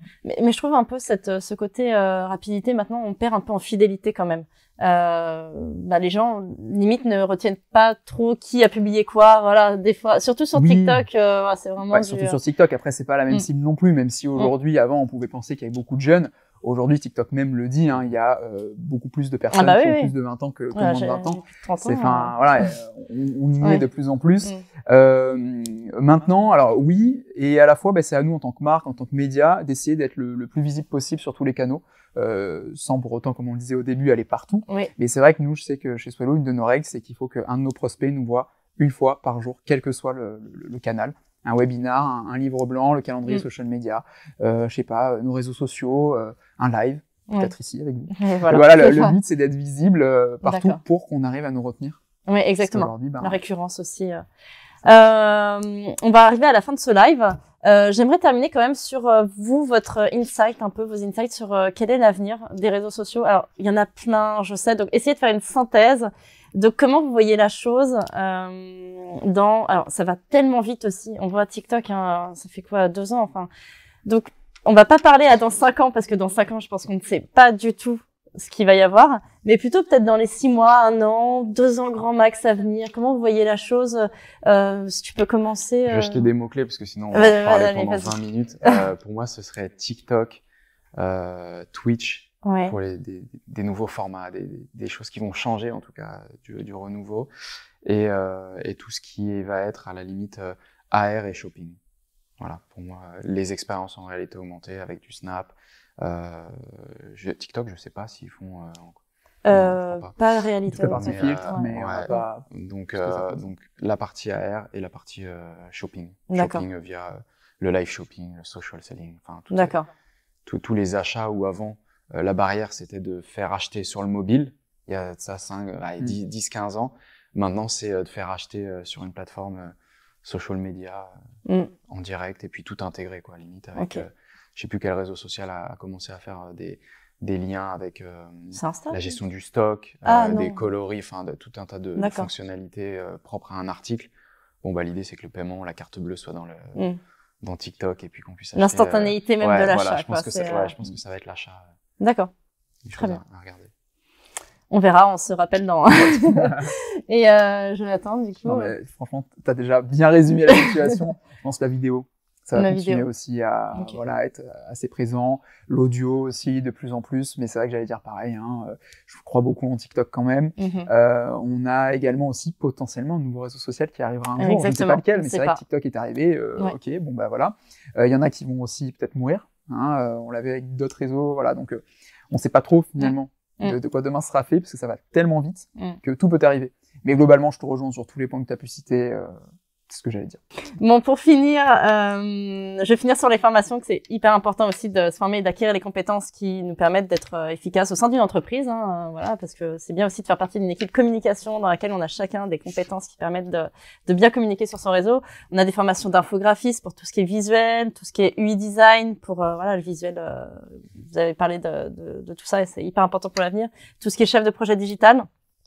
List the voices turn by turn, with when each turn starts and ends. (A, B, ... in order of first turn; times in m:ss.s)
0:00.2-0:12.4 A
0:10.5-0:11.0 B
0:11.9-0:52.0 B
0:19.5-0:20.1 A
0:20.7-0:22.7 A
0:48.1-0:49.2 A
0:50.4-0:50.8 A
0:52.2-0:54.2 A
0:52.6-0:53.4 B
0:54.8-1:13.5 A
1:14.0-1:26.2 A
1:25.9-1:30.4 C
1:27.1-1:28.8 A
1:31.0-1:37.3 C
1:32.4-1:32.7 A
1:37.8-1:41.8 C
1:42.4-1:50.1 C
1:49.4-1:52.2 A
1:50.7-1:52.5 B
1:50.8-1:59.7 C
1:53.0-1:53.4 B
1:56.3-1:56.6 A
1:59.5-1:59.9 A
2:00.4-2:11.1 C
2:11.4-2:11.7 A
2:11.9-2:24.1 C
2:13.8-2:14.0 A
2:18.5-2:19.0 A
2:20.0-2:20.6 A
2:22.0-2:22.3 A
2:24.6-2:26.8 C
2:27.4-2:31.7 C
2:28.5-2:30.7 A
2:32.0-2:32.3 A
2:32.8-2:33.7 C
2:34.7-2:38.7 A
2:36.2-2:36.6 B
2:38.4-3:09.3 B
2:42.5-2:43.0 A
2:50.6-2:50.9 A
2:54.4-2:55.6 A
3:09.9-3:10.4 B
3:10.8-3:35.3 A